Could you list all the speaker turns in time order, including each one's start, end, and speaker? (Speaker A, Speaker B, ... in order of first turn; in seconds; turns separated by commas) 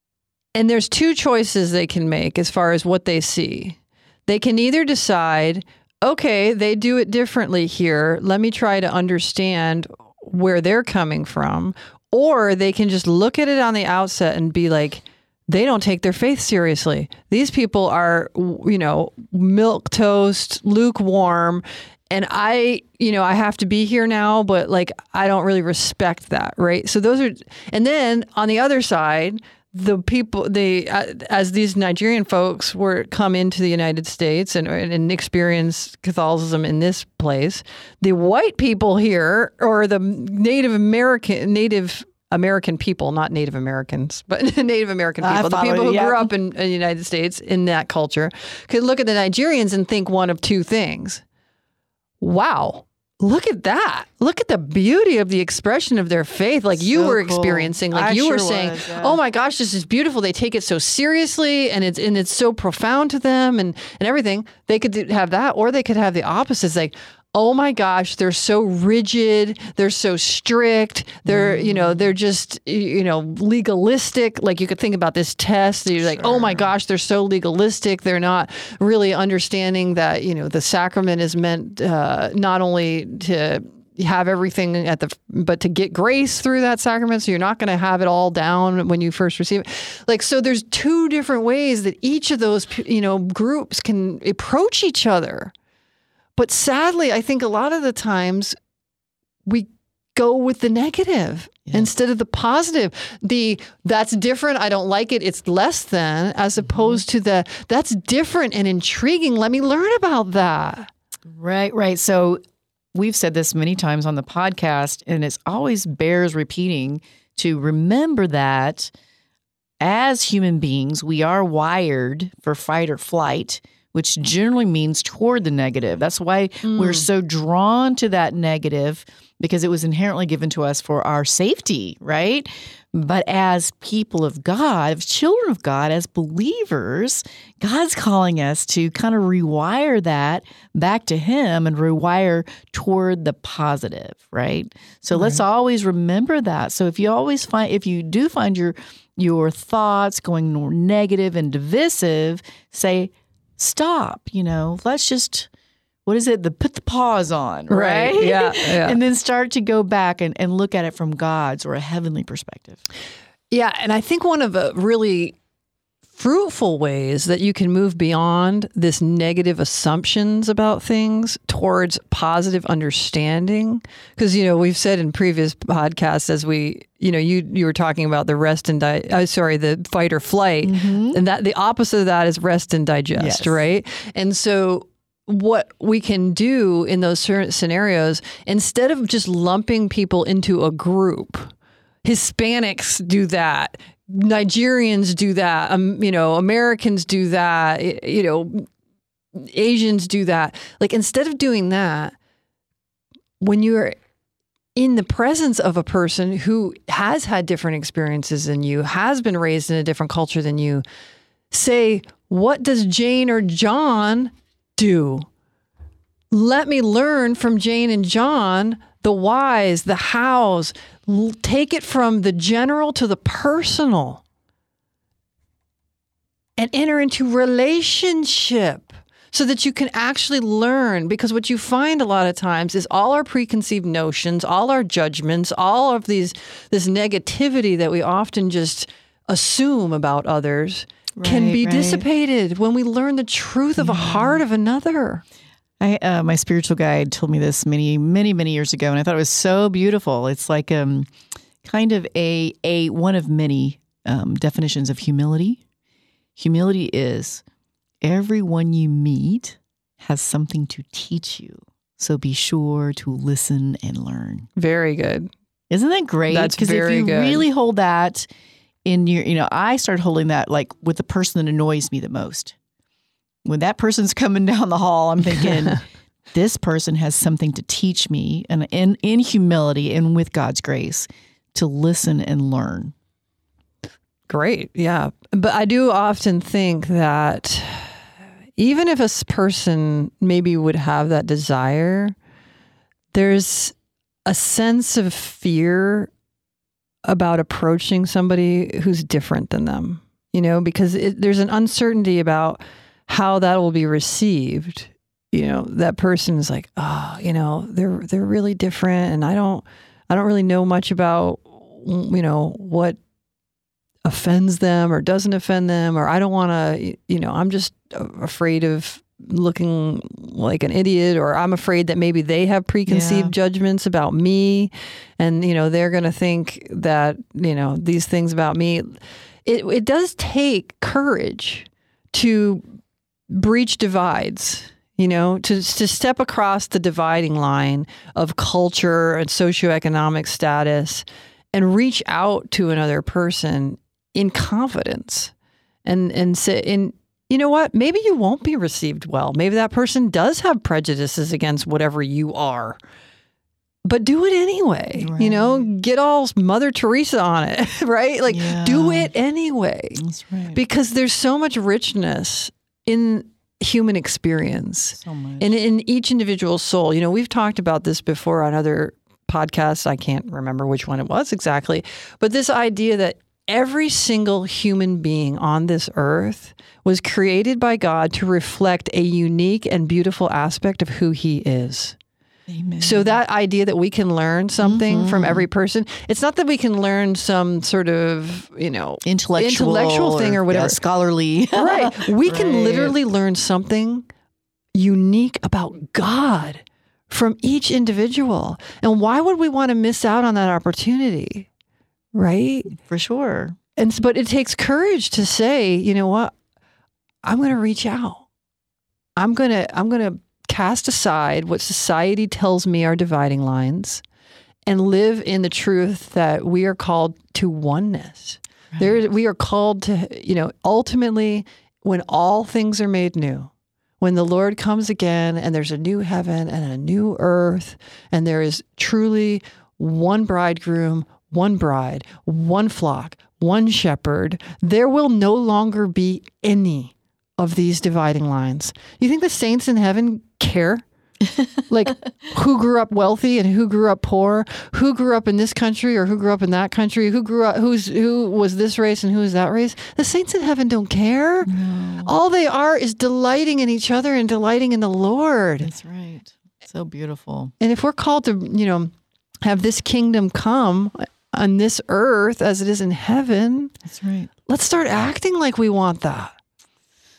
Speaker A: 0.6-51.2, Speaker B: 45.2-46.3, Speaker A: 52.2-95.5, Speaker B: 56.7-59.2, Speaker B: 71.3-72.1, Speaker B: 76.0-76.7, Speaker A: 96.4-98.5, Speaker A: 99.5-110.9, Speaker B: 106.6-107.0, Speaker B: 111.3-112.4, Speaker B: 112.9-118.9, Speaker B: 119.8-155.5, Speaker A: 126.6-127.1, Speaker A: 145.2-145.4, Speaker B: 156.1-162.8, Speaker A: 157.7-159.0, Speaker A: 163.5-165.4, Speaker A: 166.2-191.5, Speaker B: 180.6-181.2, Speaker B: 183.2-183.6, Speaker A: 192.0-198.7, Speaker A: 199.4-202.2, Speaker A: 203.4-204.0, Speaker A: 204.8-210.8, Speaker A: 211.5-215.3, Speaker A: 216.3-224.2, Speaker A: 226.6-245.2, Speaker B: 241.2-242.1, Speaker B: 243.8-244.4, Speaker B: 245.8-251.1, Speaker B: 251.6-255.6, Speaker B: 256.4-257.4, Speaker B: 258.0-264.5, Speaker A: 264.6-265.3, Speaker B: 265.7-268.3, Speaker A: 266.3-267.5, Speaker B: 268.9-272.6, Speaker B: 273.4-275.8, Speaker A: 275.3-275.8, Speaker B: 276.3-282.9, Speaker A: 284.3-287.9, Speaker A: 288.6-292.1, Speaker A: 293.1-293.8, Speaker A: 294.3-296.1, Speaker A: 297.1-313.0, Speaker A: 314.1-332.6, Speaker B: 322.9-323.3, Speaker A: 333.3-345.3, Speaker A: 345.9-352.8, Speaker A: 353.9-360.0, Speaker B: 355.0-355.7, Speaker B: 358.3-359.1, Speaker B: 360.0-360.6, Speaker A: 360.5-382.0, Speaker B: 364.9-365.5, Speaker B: 382.5-383.2, Speaker A: 382.8-390.8, Speaker B: 384.6-385.5, Speaker B: 389.0-392.9, Speaker A: 391.6-394.1, Speaker A: 394.8-401.5, Speaker A: 402.1-402.7, Speaker B: 402.7-403.6, Speaker A: 403.8-406.3, Speaker A: 407.2-408.3, Speaker A: 409.2-414.0, Speaker A: 414.7-440.9, Speaker A: 441.7-451.5, Speaker B: 451.5-452.1, Speaker A: 452.0-455.7, Speaker B: 455.6-457.5, Speaker A: 457.6-458.9, Speaker A: 459.4-463.8, Speaker B: 463.8-464.3, Speaker A: 464.5-466.3